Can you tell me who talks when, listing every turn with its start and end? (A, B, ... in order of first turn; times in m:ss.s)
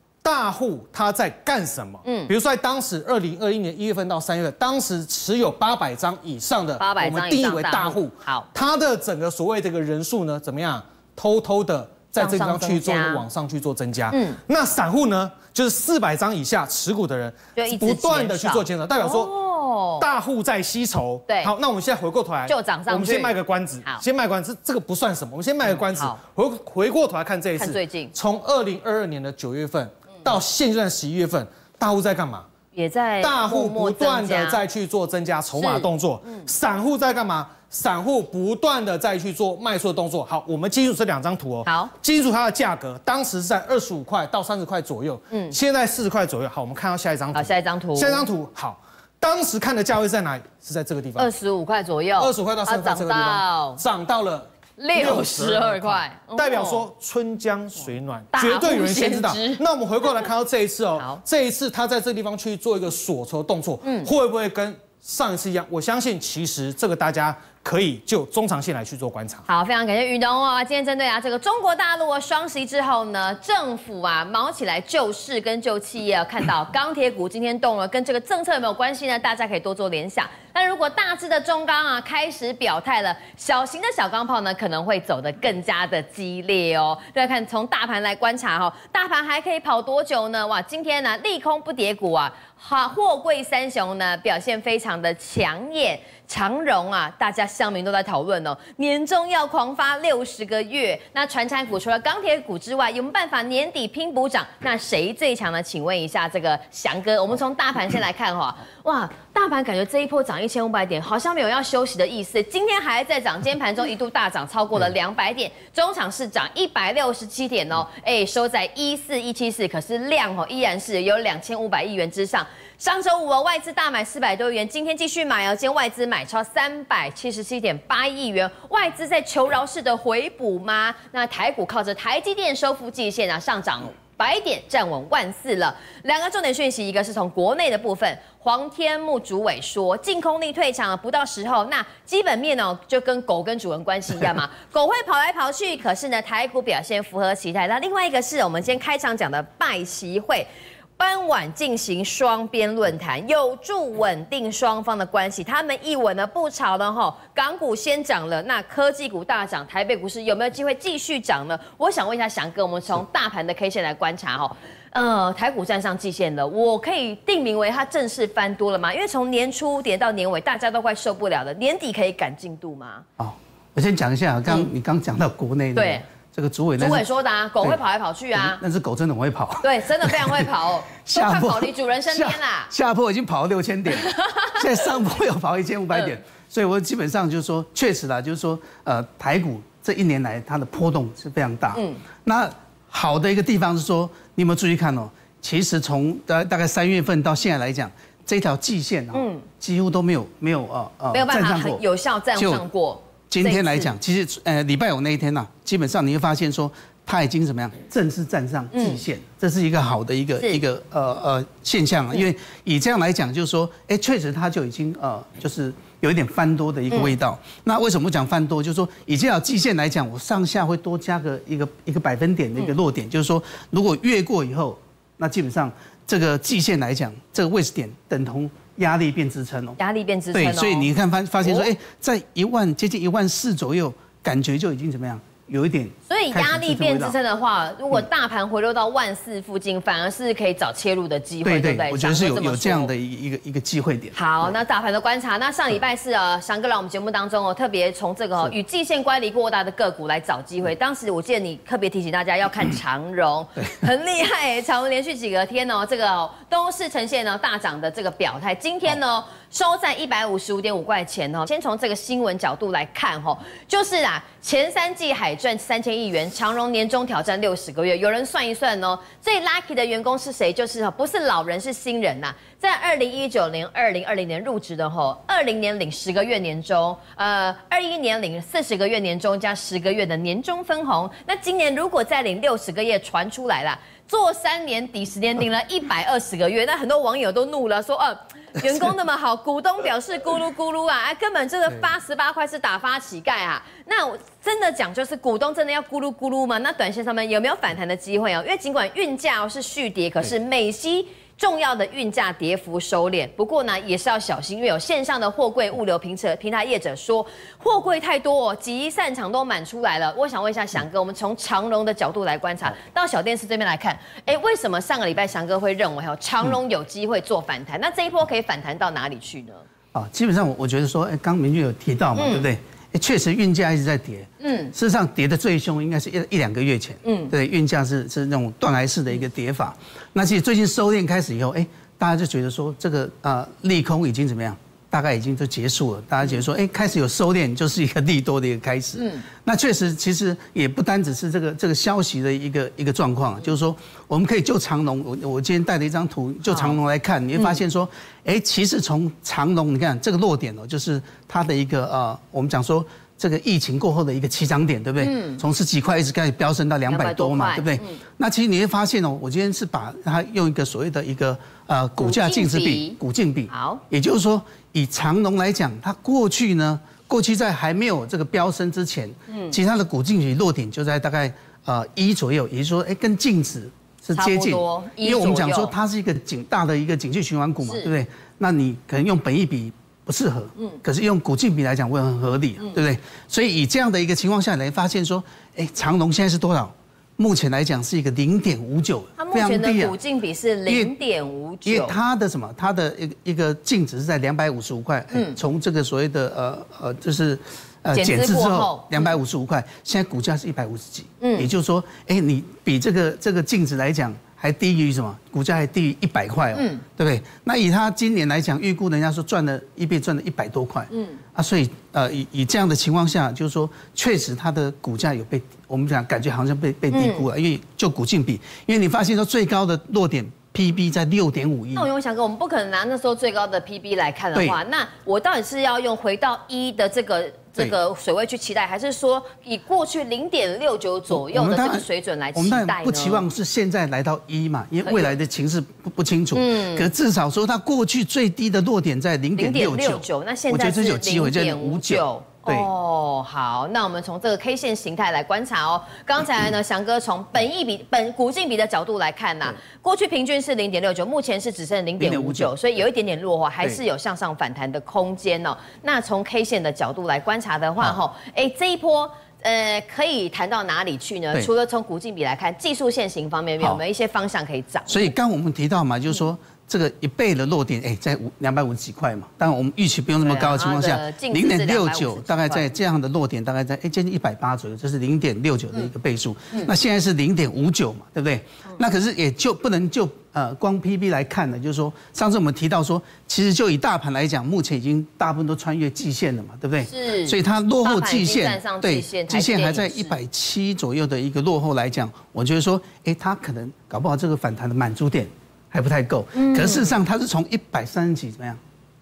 0:00.2-0:19.3 A
0:02.0-0:02.3 B
0:06.8-0:08.5 B
0:12.2-0:13.2 B
0:14.1-0:14.4 B
0:17.6-0:20.0 B
0:20.0-0:32.5 A
0:22.4-0:23.3 B
0:25.6-0:26.2 B
0:27.6-0:28.1 B
0:32.7-0:34.6 B
0:33.2-0:51.3 A
0:35.6-0:36.4 B
0:41.6-0:41.9 B
0:45.3-0:45.6 B
0:47.3-0:48.3 B
0:51.2-0:53.8 B
0:52.2-1:09.4 A
0:54.8-0:56.8 B
0:58.3-0:59.6 B
1:03.8-1:04.1 B
1:09.5-2:53.0 B
2:53.2-2:57.0 C
2:55.7-2:56.0 B
2:56.8-2:58.6 B
2:58.4-3:00.4 C
2:59.6-3:02.7 B
3:01.0-3:21.8 C
3:03.9-3:04.6 B
3:11.7-3:12.0 B
3:19.1-3:19.4 B
3:21.1-3:23.9 B
3:22.4-3:22.6 C
3:23.3-3:49.8 C
3:28.7-3:29.0 B
3:49.8-3:50.9 B
3:50.3-3:57.2 C
3:51.4-3:51.7 B
3:56.1-4:02.9 B
4:01.4-4:04.5 C
4:04.1-5:19.6 B
5:19.9-6:30.0 C
5:22.2-5:22.4 B
5:24.4-5:24.7 B
5:27.0-5:27.3 B
5:39.0-5:39.2 B
5:46.5-5:46.7 B
5:55.0-5:55.4 B
5:56.9-5:58.0 B
6:02.0-6:03.0 B
6:03.5-6:03.8 B
6:09.3-6:09.5 B
6:14.1-6:15.7 B
6:17.6-6:17.9 B
6:29.2-6:32.0 B
6:30.7-6:30.9 C
6:31.6-7:01.9 C
6:37.9-6:39.2 B
6:41.2-6:41.5 B
6:46.5-6:46.8 B
6:50.9-6:51.2 B
6:56.9-6:57.2 B
7:01.7-7:13.2 B
7:11.1-7:22.7 C
7:14.8-7:15.1 B
7:16.3-7:16.9 B
7:19.4-7:45.1 B
7:32.0-7:32.5 C
7:44.9-8:18.6 C
7:50.2-7:52.6 B
8:06.8-8:10.2 B
8:16.3-8:17.0 B